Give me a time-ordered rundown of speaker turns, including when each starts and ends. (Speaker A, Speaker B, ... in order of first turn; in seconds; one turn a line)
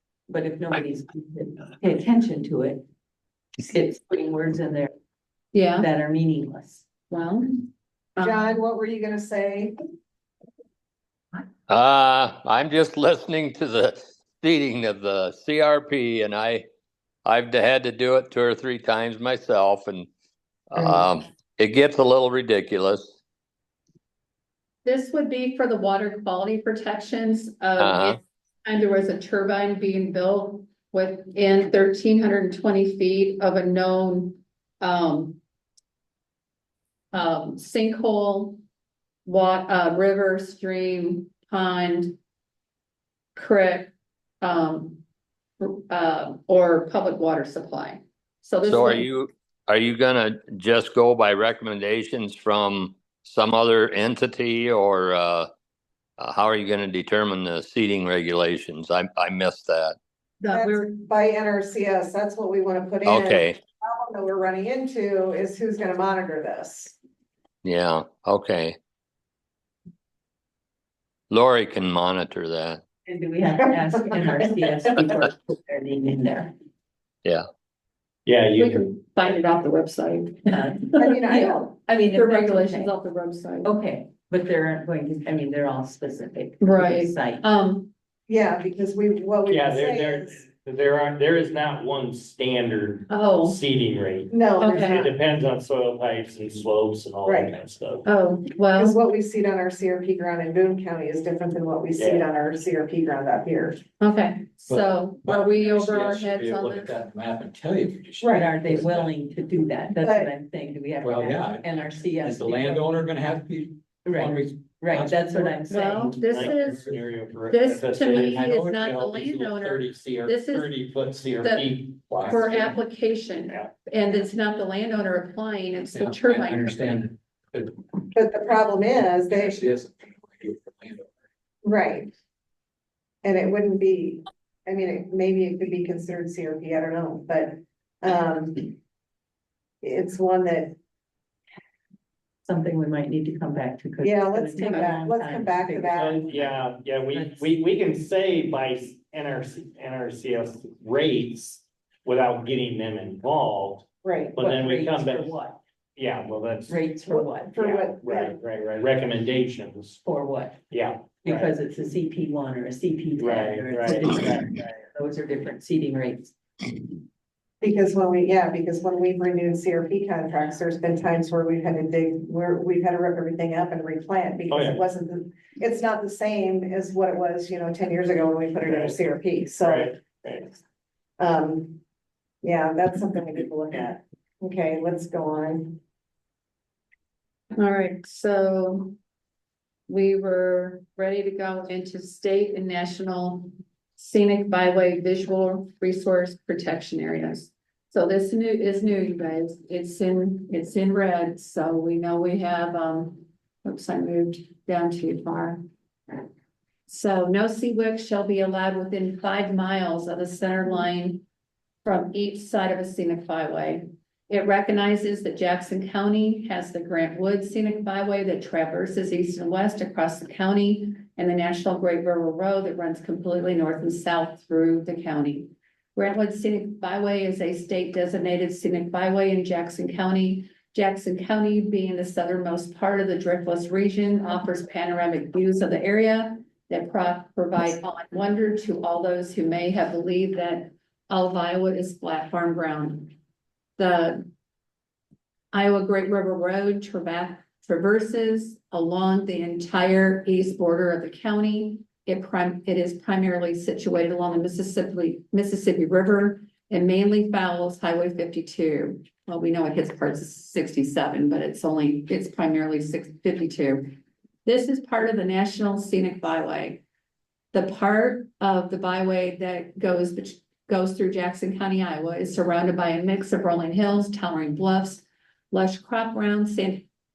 Speaker A: 0.3-2.8
Speaker A: 3.6-4.9
Speaker B: 5.5-5.9
Speaker A: 5.8-6.9
Speaker B: 7.1-7.6
Speaker B: 8.2-8.6
Speaker C: 8.2-9.7
Speaker D: 11.7-16.6
Speaker D: 17.2-20.1
Speaker D: 20.7-23.1
Speaker B: 24.8-35.4
Speaker D: 27.8-28.2
Speaker B: 37.1-38.6
Speaker B: 39.2-42.2
Speaker B: 43.3-45.0
Speaker B: 45.6-49.1
Speaker D: 48.6-55.5
Speaker D: 56.2-60.0
Speaker B: 60.4-60.9
Speaker C: 60.5-67.0
Speaker D: 63.0-63.6
Speaker D: 67.6-68.8
Speaker D: 71.3-72.8
Speaker A: 73.0-76.5
Speaker C: 74.1-74.8
Speaker E: 78.2-78.8
Speaker B: 78.6-83.7
Speaker A: 80.5-82.9
Speaker C: 81.0-81.7
Speaker A: 83.6-87.4
Speaker B: 86.6-87.9
Speaker C: 88.3-90.4
Speaker E: 89.5-98.0
Speaker B: 93.1-93.6
Speaker C: 94.3-95.1
Speaker B: 94.6-95.0
Speaker C: 97.2-97.5
Speaker B: 98.0-99.0
Speaker C: 98.7-103.8
Speaker E: 102.0-102.3
Speaker B: 104.0-107.0
Speaker F: 104.7-109.1
Speaker C: 108.2-108.5
Speaker A: 108.3-112.9
Speaker C: 110.0-110.3
Speaker F: 111.0-116.9
Speaker A: 114.0-116.2
Speaker B: 115.7-120.7
Speaker E: 116.3-118.3
Speaker F: 118.0-120.8
Speaker E: 120.5-122.0
Speaker B: 121.4-127.1
Speaker F: 122.1-122.8
Speaker F: 125.9-127.9
Speaker C: 128.1-129.6
Speaker F: 129.3-131.1
Speaker C: 131.6-132.1
Speaker C: 133.2-138.8
Speaker C: 139.8-140.8
Speaker A: 142.4-146.5
Speaker C: 144.0-146.2
Speaker E: 145.9-155.3
Speaker A: 147.1-147.5
Speaker C: 154.0-154.4
Speaker A: 154.4-155.6
Speaker E: 155.9-156.8
Speaker A: 156.7-157.7
Speaker C: 157.0-158.3
Speaker E: 157.7-160.0
Speaker A: 160.0-160.6
Speaker E: 160.7-161.5
Speaker A: 161.2-166.7
Speaker E: 163.2-164.1
Speaker C: 167.6-179.9
Speaker E: 174.5-174.8
Speaker E: 178.6-179.0
Speaker E: 179.7-180.5
Speaker C: 181.2-181.8
Speaker C: 182.4-185.8
Speaker B: 187.6-188.9
Speaker B: 189.9-205.6
Speaker B: 206.9-211.2
Speaker B: 211.8-243.1
Speaker B: 243.8-244.3
Speaker B: 245.5-266.8
Speaker B: 267.5-276.9